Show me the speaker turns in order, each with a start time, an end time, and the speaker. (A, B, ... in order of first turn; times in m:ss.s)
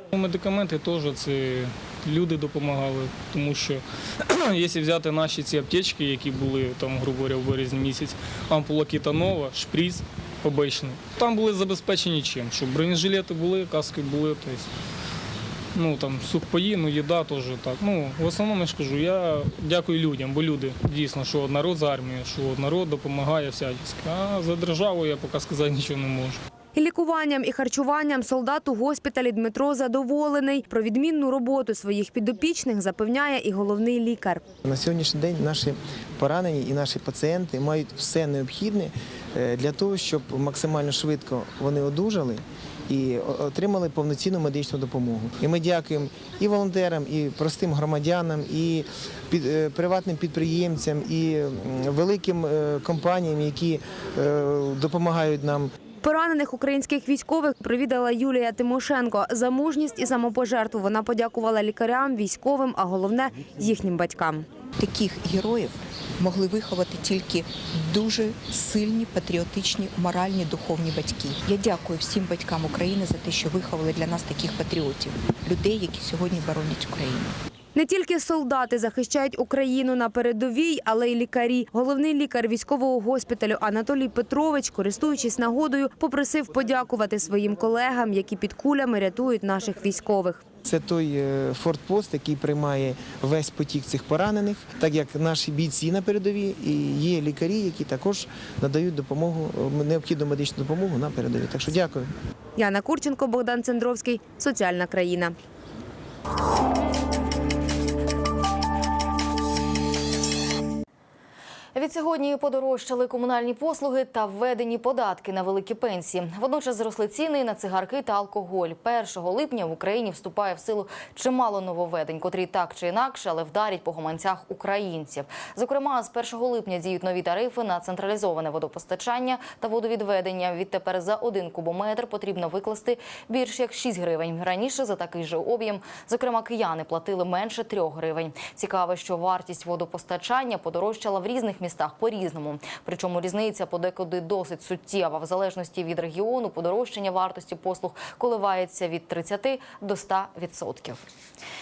0:00.1-0:14.7 A
0:15.7-0:26.4 A
0:26.7-0:34.4 B
0:34.6-0:55.7 C
0:56.0-1:04.4 B
1:04.8-1:17.4 D
1:17.7-1:30.4 B
1:30.6-1:42.1 C
1:42.6-1:45.3 B
1:51.7-2:31.1 E